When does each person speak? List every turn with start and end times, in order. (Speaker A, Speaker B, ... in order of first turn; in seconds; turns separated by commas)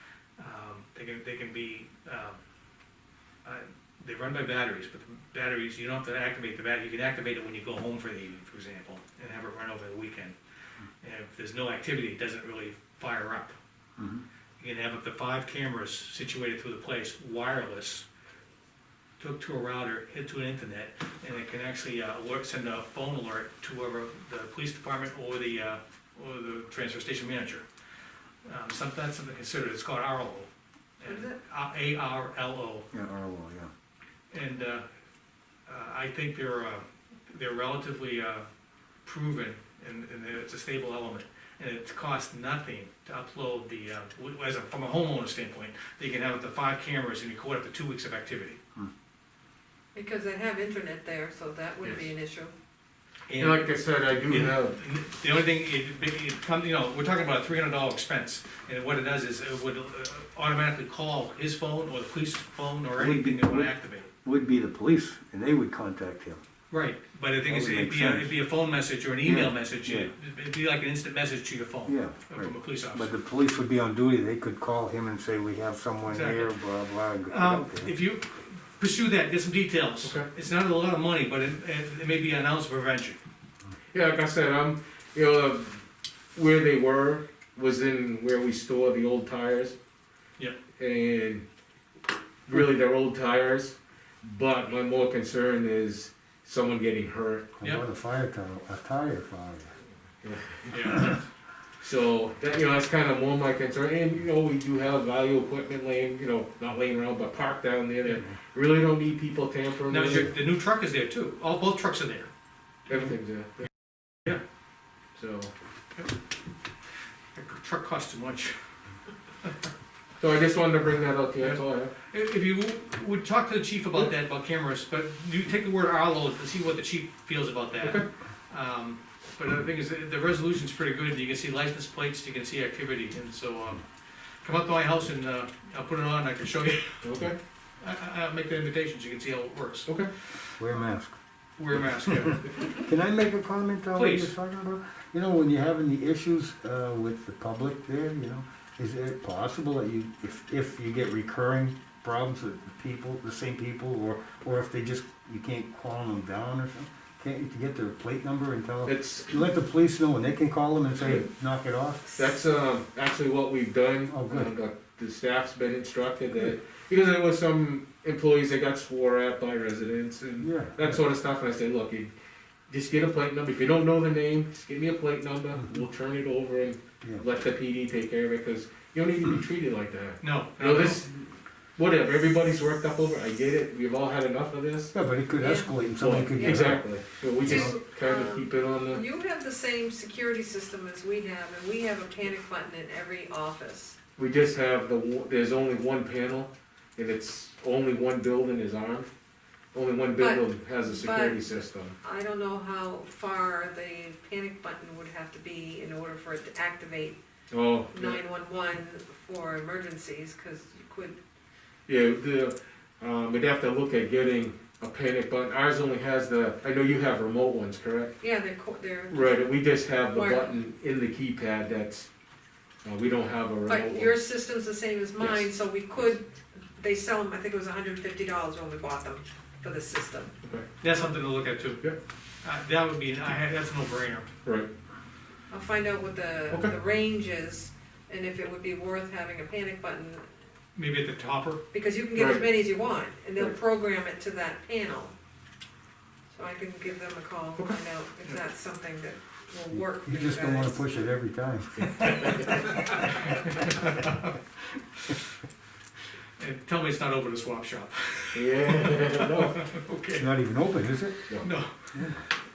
Speaker A: 0.4-2.4, Speaker A: 3.4-10.4, Speaker A: 11.0-13.6, Speaker B: 14.0-14.2, Speaker A: 14.6-18.1, Speaker A: 19.2-27.6, Speaker A: 28.4-30.5, Speaker A: 31.0-32.9, Speaker C: 31.0-31.4, Speaker B: 32.9-33.7, Speaker A: 34.3-34.9, Speaker A: 35.7-38.5, Speaker A: 39.0-48.6, Speaker C: 50.0-52.5, Speaker A: 53.3-53.7, Speaker D: 53.4-54.8, Speaker A: 54.3-64.1, Speaker B: 63.0-66.4, Speaker A: 66.7-73.1, Speaker B: 67.5-68.3, Speaker B: 69.2-70.1, Speaker B: 71.9-77.9, Speaker A: 76.1-76.5, Speaker A: 77.3-83.2, Speaker D: 83.9-85.8, Speaker D: 86.3-89.8, Speaker D: 90.8-91.5, Speaker D: 92.5-97.5, Speaker B: 97.6-99.7, Speaker D: 100.2-100.9, Speaker A: 100.7-101.2, Speaker D: 101.8-110.3, Speaker A: 109.9-112.3, Speaker D: 112.9-113.6, Speaker D: 115.2-115.5, Speaker A: 117.3-118.6, Speaker D: 120.2-121.9, Speaker A: 121.4-133.8, Speaker A: 134.4-137.1, Speaker D: 137.0-137.4, Speaker A: 137.8-140.0, Speaker B: 140.6-141.2, Speaker A: 141.6-142.7, Speaker B: 142.5-162.1, Speaker A: 143.9-144.3, Speaker D: 158.9-159.3, Speaker D: 161.0-161.2, Speaker D: 162.2-172.1, Speaker B: 164.1-164.5, Speaker B: 170.4-170.9, Speaker D: 172.7-181.2, Speaker A: 180.2-181.1, Speaker D: 181.8-184.9, Speaker B: 184.9-187.7, Speaker C: 185.4-185.8, Speaker D: 186.0-189.0, Speaker C: 186.4-186.7, Speaker C: 187.4-194.0, Speaker D: 194.2-199.1, Speaker D: 199.7-202.0, Speaker C: 200.2-201.4, Speaker C: 202.0-207.2, Speaker D: 207.5-208.2, Speaker C: 207.9-211.2, Speaker D: 211.9-218.2, Speaker C: 218.2-219.4, Speaker D: 219.1-222.1, Speaker C: 220.1-220.5, Speaker D: 222.8-224.2, Speaker C: 223.7-230.3, Speaker D: 225.2-225.5, Speaker A: 230.8-231.8, Speaker A: 232.4-234.3, Speaker C: 235.5-240.2, Speaker A: 240.8-241.6, Speaker C: 241.7-245.2, Speaker D: 242.2-242.5, Speaker C: 246.3-250.8, Speaker B: 249.7-252.0, Speaker D: 252.0-252.6, Speaker A: 253.2-254.4, Speaker A: 256.4-260.3, Speaker D: 258.3-259.6, Speaker B: 260.2-261.3, Speaker A: 261.4-262.1